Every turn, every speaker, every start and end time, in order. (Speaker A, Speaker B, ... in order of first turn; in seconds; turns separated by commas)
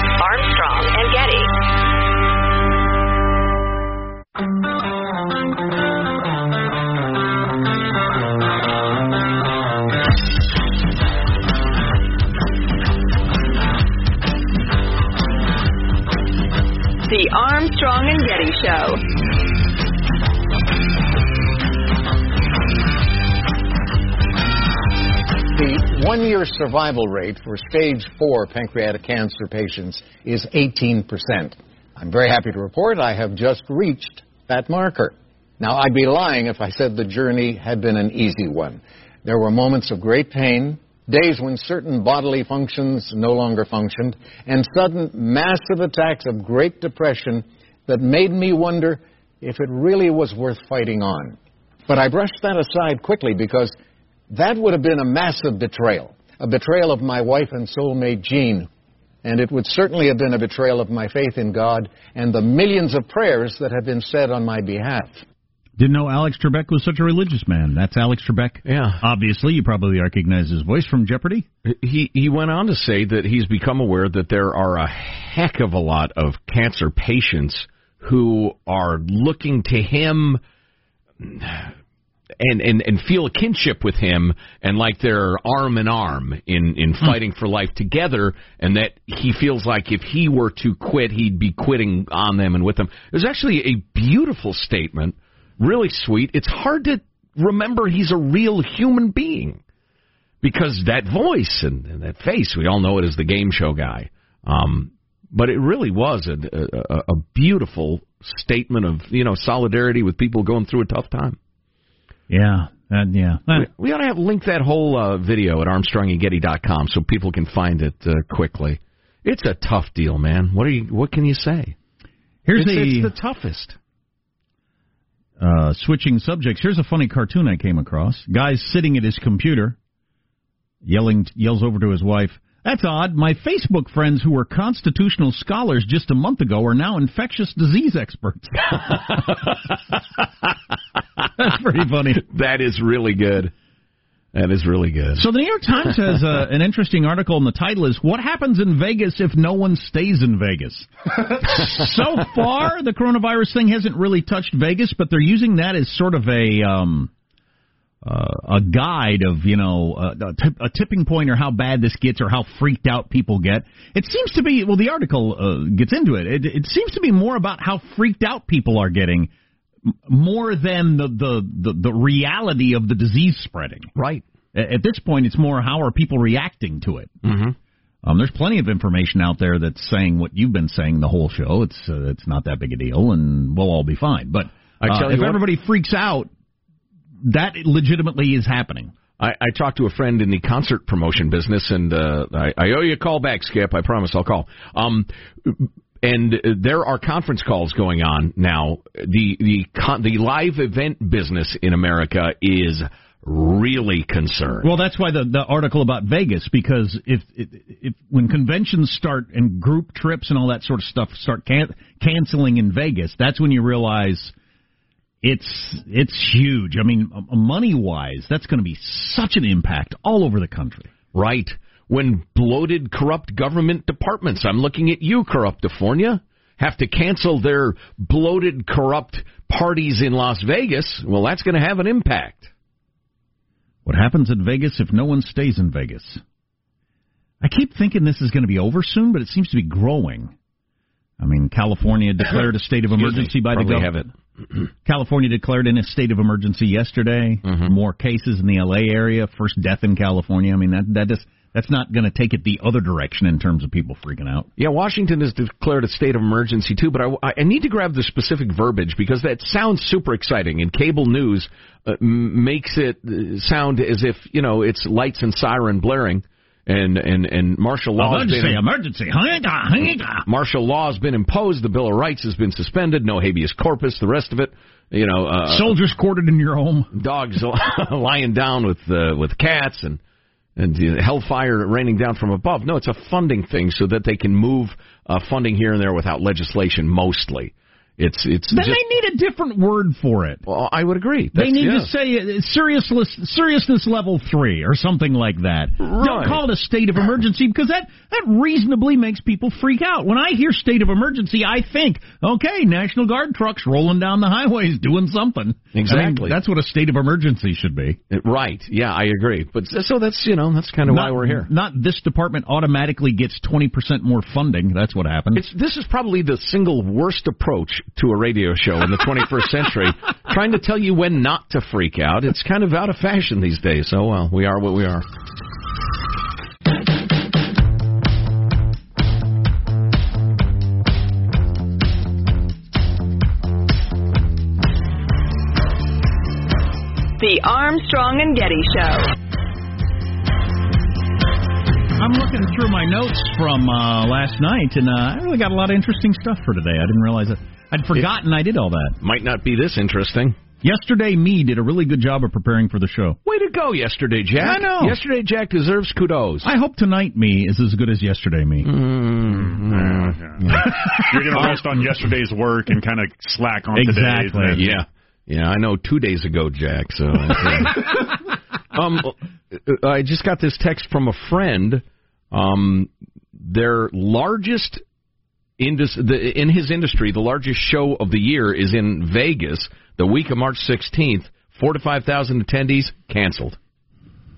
Speaker A: 0.2-1.5, Speaker A: 17.1-19.0, Speaker B: 25.6-51.4, Speaker B: 51.9-53.7, Speaker B: 54.3-58.7, Speaker B: 59.2-65.2, Speaker C: 65.8-71.5, Speaker D: 68.7-69.0, Speaker D: 71.7-80.4, Speaker D: 81.2-81.7, Speaker D: 82.4-99.6, Speaker D: 100.4-111.4, Speaker C: 112.3-113.7, Speaker D: 113.5-121.8, Speaker C: 122.5-123.1, Speaker D: 122.5-123.8, Speaker C: 125.4-129.8, Speaker C: 130.8-139.0, Speaker D: 139.0-139.6, Speaker C: 141.4-142.2, Speaker D: 142.2-143.5, Speaker D: 144.3-145.2, Speaker C: 145.2-157.1, Speaker C: 158.0-169.3, Speaker C: 169.9-173.9, Speaker D: 173.9-174.2, Speaker C: 174.5-177.1, Speaker D: 177.2-177.6, Speaker C: 178.0-186.3, Speaker D: 184.8-185.4, Speaker C: 187.2-188.9, Speaker D: 189.2-204.7, Speaker C: 204.6-214.3, Speaker C: 215.2-220.9, Speaker D: 221.1-232.5, Speaker C: 233.8-236.2, Speaker C: 237.4-240.3, Speaker C: 241.2-243.9, Speaker D: 242.9-244.1, Speaker C: 244.8-254.5, Speaker D: 247.4-247.7, Speaker D: 254.6-268.6, Speaker C: 268.0-270.2, Speaker D: 270.2-275.8, Speaker C: 275.5-276.9, Speaker D: 276.9-280.0, Speaker D: 280.6-288.8, Speaker C: 288.5-290.4, Speaker D: 290.5-291.9, Speaker C: 291.4-308.0, Speaker D: 295.8-296.4, Speaker D: 305.7-306.4, Speaker D: 308.1-311.5, Speaker C: 310.9-315.4, Speaker D: 315.4-325.1, Speaker A: 337.2-339.1, Speaker C: 342.0-349.0, Speaker D: 349.0-350.4, Speaker C: 350.6-353.2, Speaker D: 353.2-356.5, Speaker C: 354.4-355.0, Speaker C: 356.4-358.7, Speaker D: 358.6-361.6, Speaker E: 359.7-364.8, Speaker C: 363.7-364.6, Speaker D: 364.6-368.2, Speaker D: 368.7-374.8, Speaker D: 375.6-383.6